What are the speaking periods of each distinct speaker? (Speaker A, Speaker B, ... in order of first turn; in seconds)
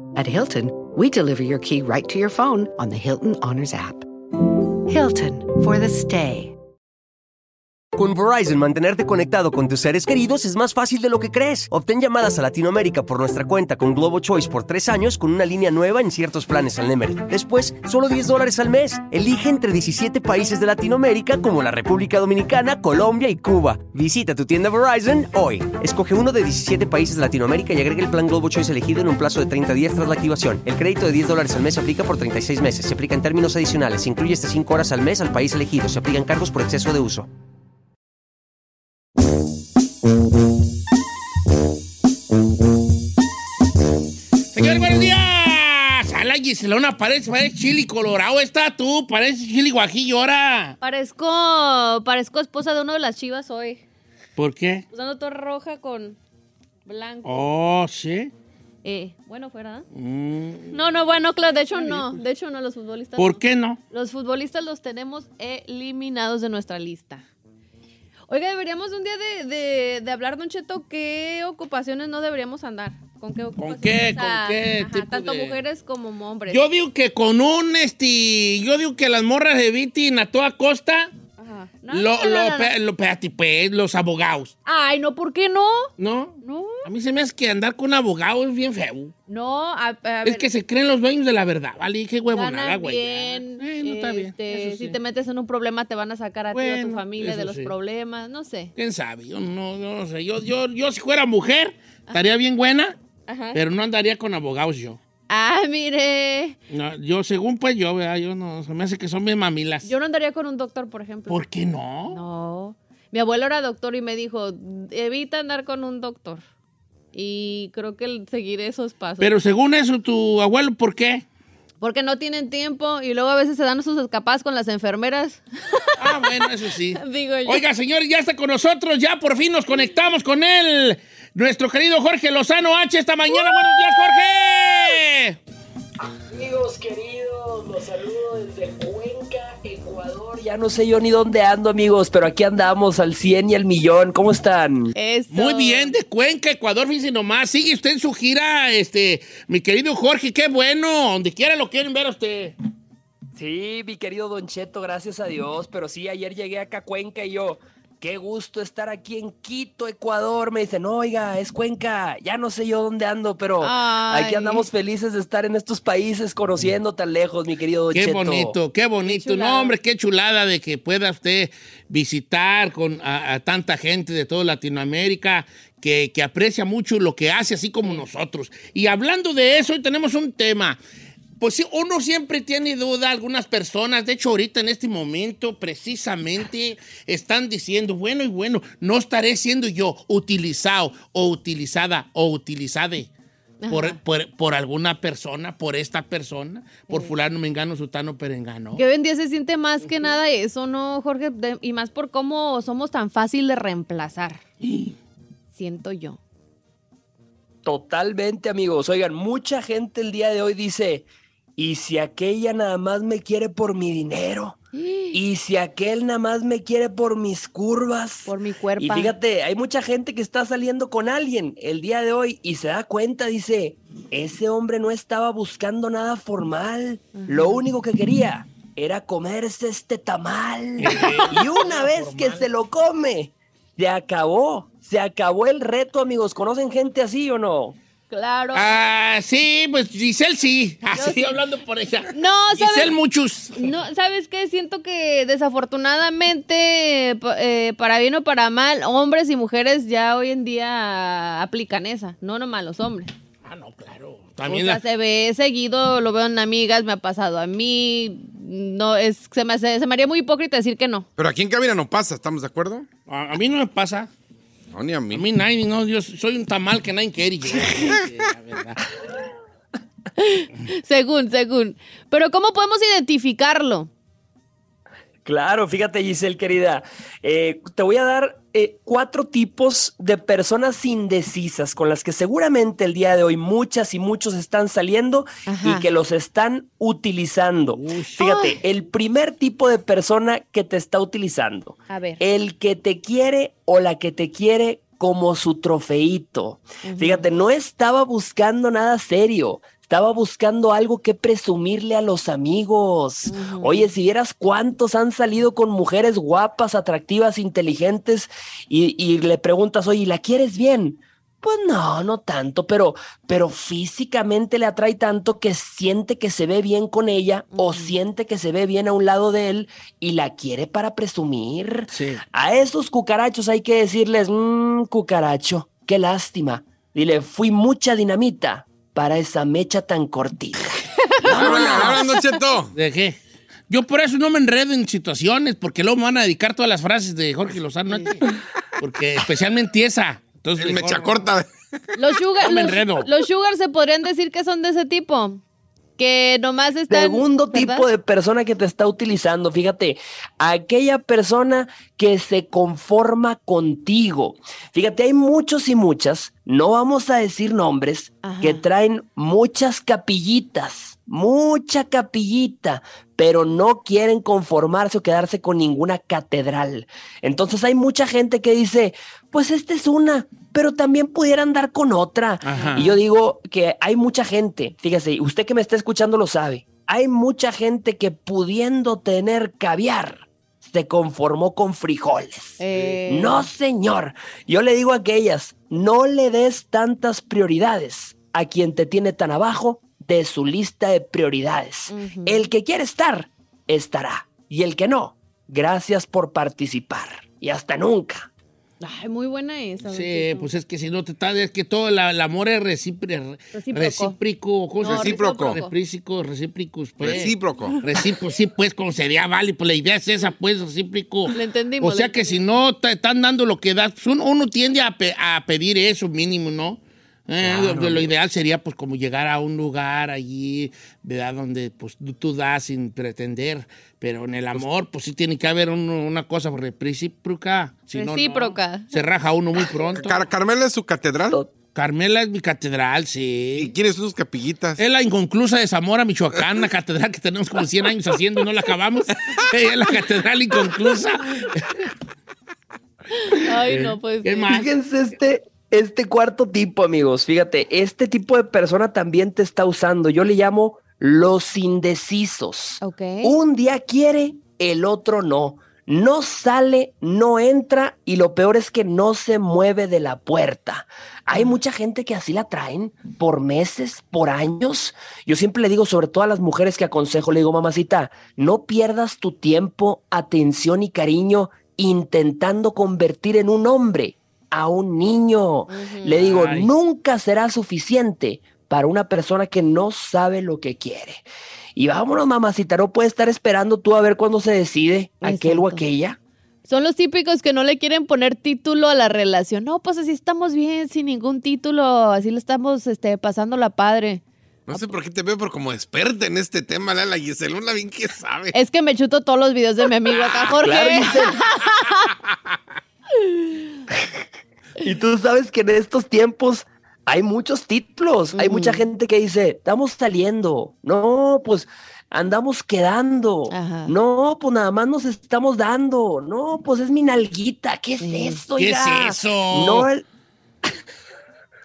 Speaker A: 0.1-4.1, 4.9-6.5
Speaker B: 8.0-37.3
Speaker C: 44.5-50.8, 54.4-54.9, 57.2-58.3, 59.9-60.9, 61.7-62.2, 63.2-63.8, 73.6-75.6, 76.5-81.1, 81.9-84.5, 86.0-89.1, 90.2-95.0, 96.5-97.7, 98.8-103.0, 103.5-105.0, 106.7-109.9, 111.3-112.2, 119.2-121.2, 126.0-135.4, 145.3-152.6, 167.9-180.8, 181.4-193.1, 193.7-198.8, 204.6-204.9, 230.8-232.4, 238.5-243.8, 253.4-254.8, 263.1-264.1, 265.1-268.8, 287.7-288.2, 321.9-322.2, 331.3-331.8, 332.7-341.2, 342.4-343.1, 372.4-373.0, 399.9-430.2, 431.7-433.7, 434.8-441.8, 443.7-444.7, 476.1-476.7, 518.6-519.9
Speaker D: 50.8-53.8, 54.9-56.2, 56.9-57.4, 58.8-59.9, 60.7-67.2, 68.3-76.7, 81.4-82.7, 84.7-85.9, 86.4-86.9, 89.3-90.5, 92.3-98.7, 103.3-103.6, 105.3-106.6, 109.8-111.4, 112.1-116.4, 117.1-119.3, 121.8-126.2, 126.9-127.6, 133.4-133.8, 144.9-145.9, 163.6-164.7, 169.0-169.8, 193.6-194.0, 196.9-197.1, 198.8-204.4, 205.5-206.2, 214.7-215.2, 218.3-219.2, 227.2-227.6, 230.9-231.2, 238.1-238.9, 240.9-241.4, 242.1-242.9, 243.6-253.1, 254.5-261.1, 270.2-273.9, 285.5-285.9, 288.2-288.6, 291.9-292.2, 296.8-297.3, 303.3-303.9, 317.5-317.9, 331.1-332.1, 337.9-338.2, 342.0-345.4, 346.0-347.9, 358.2-358.6, 372.6-372.9, 382.6-383.5, 391.9-392.5, 398.8-400.5, 403.5-404.2, 404.8-405.7, 407.1-407.8, 411.3-412.4, 427.9-428.9, 443.1-444.6, 452.8-453.4, 475.7-476.1, 485.2-485.8, 486.7-494.2, 498.5-502.1, 508.3-508.9, 513.5-514.0, 518.0-518.4
Speaker E: 136.3-144.9, 153.4-168.6, 207.7-214.6, 215.1-237.8, 275.2-330.8, 331.5-332.0, 346.9-398.3, 444.5-481.2, 481.8-486.2, 500.6-501.4, 504.8-520.0
Speaker F: 261.2-262.9, 264.7-265.2, 331.3-332.7, 340.6-341.5, 404.8-405.6, 407.0-407.8, 417.4-418.1, 429.9-431.4, 433.6-434.8, 494.7-498.6